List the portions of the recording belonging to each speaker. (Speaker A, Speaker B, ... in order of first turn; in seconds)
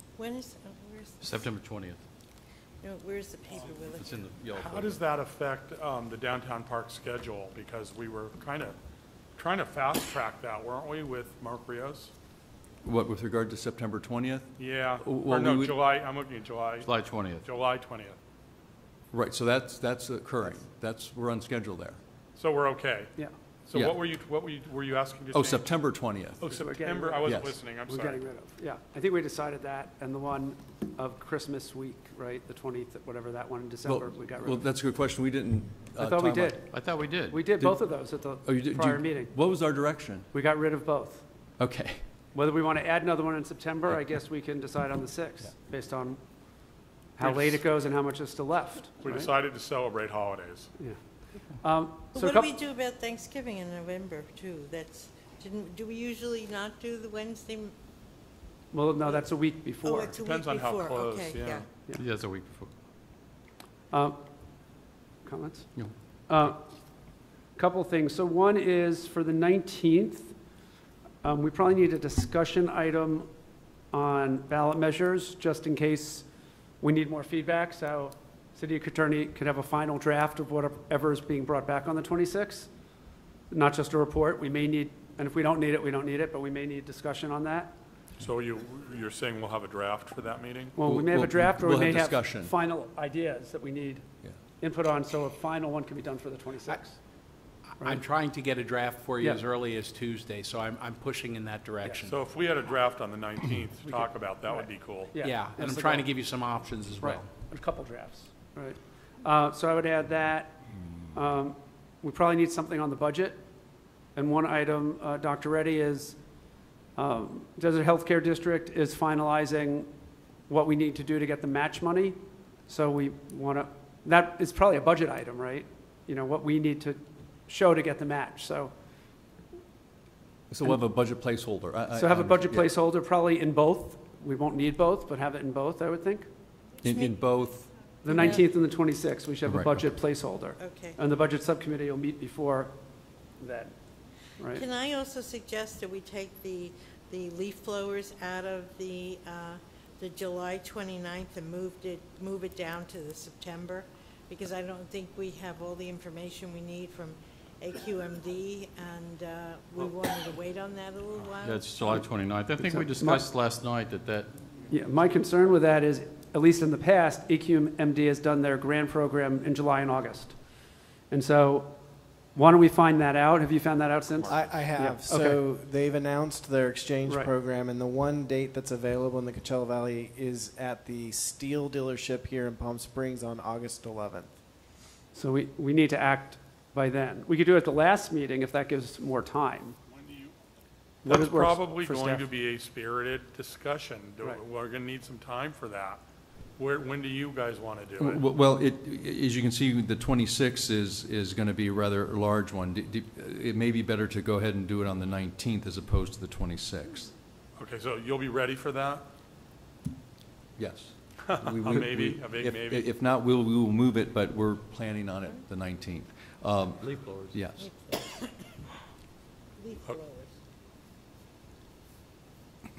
Speaker A: 0.2-1.5, 2.8-4.2, 52.1-57.7, 59.8-61.7, 138.1-138.4, 140.6-141.0, 144.5-161.9, 217.6-218.5, 219.6-220.3
Speaker B: 1.2-2.0, 3.9-5.0, 16.8-17.5, 36.7-37.4, 62.0-62.7, 161.4-164.3, 216.8-217.3
Speaker C: 4.5-8.8, 9.4-12.1, 14.6-16.9, 17.4-18.2, 22.4-23.1, 23.7-25.7, 26.4-28.2, 47.2-47.6, 49.0-50.7, 60.1-61.7, 88.2-90.8, 102.0-105.2, 190.0-190.3, 191.1-196.0, 196.6-198.2, 207.6-209.0, 211.2-212.9
Speaker D: 12.8-14.5, 15.0-15.8, 19.1-22.0, 25.3-26.5, 27.3-27.5, 33.9-36.6, 37.6-37.9, 38.4-40.3, 41.6-42.0, 90.8-92.5, 130.5-132.7, 136.8-138.4, 139.5-139.8, 198.0-207.1, 210.6-217.7
Speaker E: 26.5-34.7, 36.0-36.7, 37.3-39.4, 40.3-41.2, 42.3-46.2, 47.2-49.3, 51.6-52.5, 58.7-60.1, 63.9-64.2, 65.2-66.6, 67.5-70.3, 71.2-73.3, 73.9-76.3, 76.8-82.7, 83.5-87.7, 90.8-94.0, 94.6-97.0, 97.8-98.2, 99.1-99.5, 101.8-102.1, 103.9-110.6, 111.1-113.4, 114.2-116.2, 117.0-119.9, 120.5-128.7, 131.9-136.3, 138.0-142.7, 143.4-143.7, 144.4-144.7, 162.7-163.3, 164.7-170.4, 171.1-171.7, 172.3-175.4, 185.1-189.8, 191.1-192.3
Speaker F: 97.9-102.0, 105.2-107.0
Speaker G: 174.2-184.3